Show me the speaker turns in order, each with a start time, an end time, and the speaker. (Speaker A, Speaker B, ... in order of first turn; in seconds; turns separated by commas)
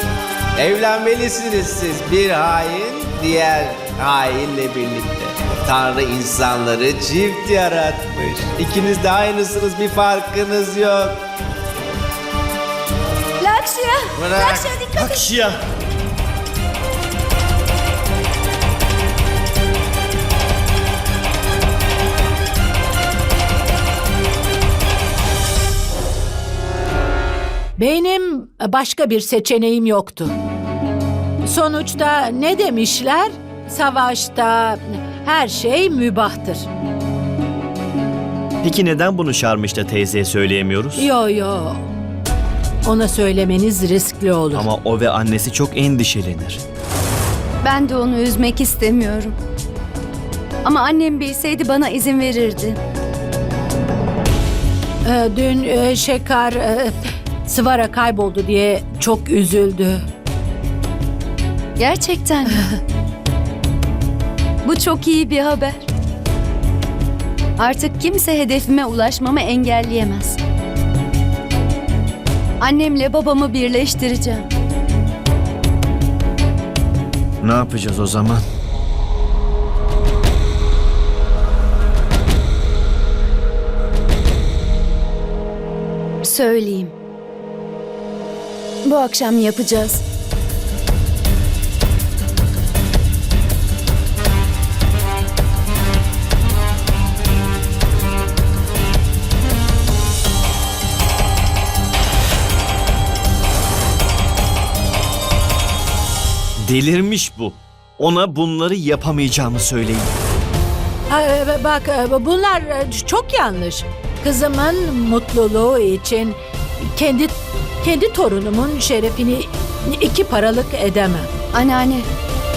Speaker A: 0.6-11.2, Speaker B: 13.4-15.3, Speaker A: 14.2-15.5, Speaker C: 15.0-15.5, Speaker D: 27.8-30.4, Speaker D: 31.4-36.7, Speaker C: 38.6-41.1, Speaker D: 41.0-41.8, Speaker D: 42.8-44.7, Speaker C: 44.5-46.6, Speaker B: 47.6-49.4, Speaker B: 50.6-52.8, Speaker D: 55.0-60.0, Speaker B: 61.8-62.7, Speaker B: 64.6-65.9, Speaker B: 67.6-70.4, Speaker B: 72.6-74.5, Speaker C: 77.4-78.4, Speaker B: 86.2-87.0, Speaker B: 88.8-90.0, Speaker C: 106.6-110.1, Speaker D: 111.1-121.3, Speaker B: 121.5-122.1